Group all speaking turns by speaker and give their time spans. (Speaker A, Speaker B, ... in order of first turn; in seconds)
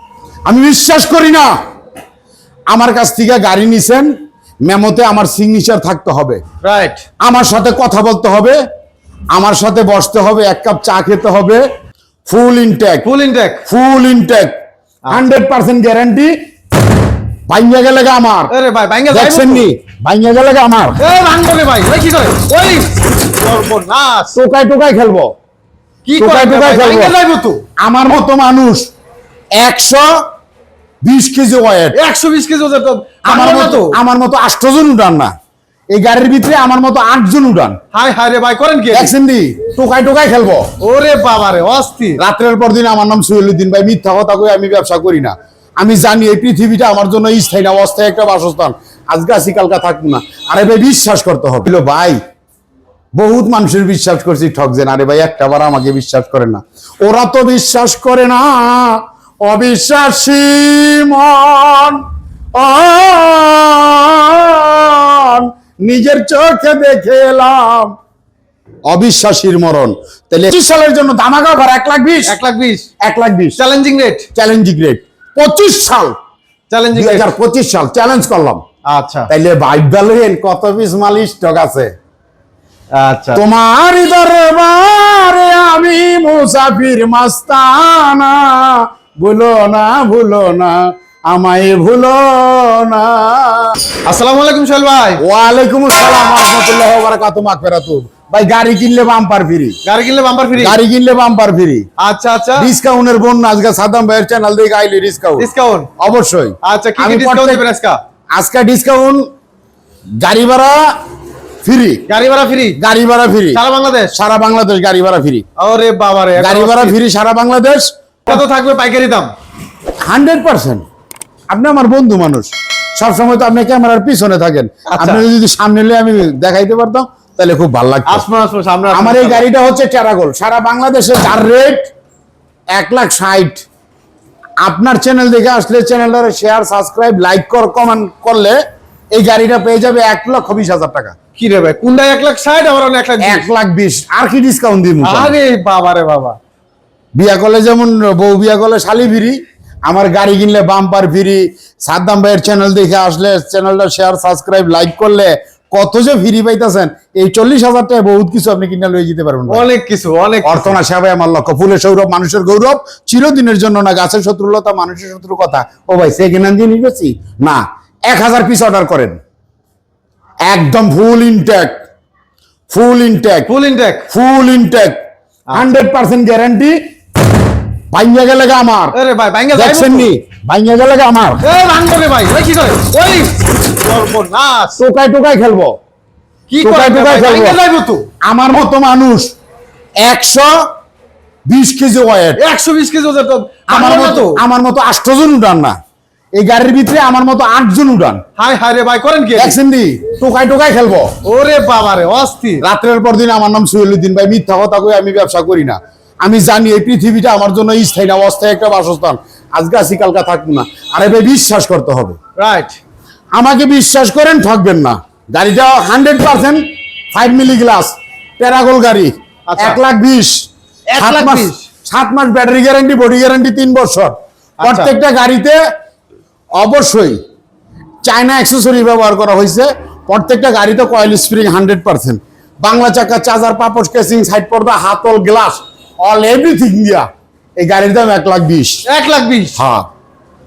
Speaker A: 0.5-1.5, 2.7-4.1, 4.7-6.4, 7.2-8.6, 9.3-11.6, 12.3-13.1, 13.7-14.5, 15.1-16.3, 17.5-18.5, 19.1-21.0, 24.3-25.3, 26.2-27.1, 27.8-28.9, 29.6-30.1, 31.0-32.0, 33.2-35.3, 35.9-37.8, 38.9-40.7, 42.2-52.2, 53.1-62.0, 62.6-67.9, 68.9-72.4, 73.0-73.6, 74.3-76.1, 76.9-78.6, 79.3-81.9, 83.3-93.8, 95.2-99.8, 100.6-101.8, 102.6-105.5, 106.0-107.6, 108.3-109.2, 110.2-110.9, 111.6-112.0, 112.8-113.6, 114.1-115.4, 116.4-118.4, 120.1-120.8, 121.5-128.2, 128.9-131.9, 132.7-133.6, 134.6-138.6, 139.1-141.2, 143.2-145.3, 147.1-159.6, 160.4-169.2, 170.4-171.8, 172.7-173.5, 174.1-175.0, 175.5-176.8, 177.9-178.9, 179.5-181.4, 184.8-185.8, 186.6-187.6, 188.2-189.3, 190.0-190.6, 191.4-192.4, 193.7-195.8, 196.3-198.2, 199.4-201.1, 202.6-212.2, 213.3-220.4, 221.0-225.6, 226.6-227.2, 228.0-237.1, 237.6-238.8, 239.6-239.9
Speaker B: 6.6-7.0, 13.0-13.6, 18.5-19.7, 21.0-24.4, 26.1-27.6, 31.9-34.0, 37.9-39.1, 40.8-42.2, 72.3-72.9, 73.5-74.3, 76.7-77.3, 78.9-79.3, 82.9-83.4, 94.0-95.2, 99.8-100.8, 102.0-102.7, 105.4-105.9, 106.6-108.0, 112.1-112.8, 113.5-114.1, 115.6-117.0, 118.3-119.3, 124.9-125.2, 128.1-129.4, 141.3-143.5, 145.0-146.4, 159.5-160.8, 173.5-174.1, 178.9-180.1, 181.4-184.8, 186.5-188.1, 192.4-194.4, 198.4-199.6, 201.2-202.6, 212.4-212.8, 219.5-219.8, 220.9-221.7, 224.6-224.9, 238.8-239.6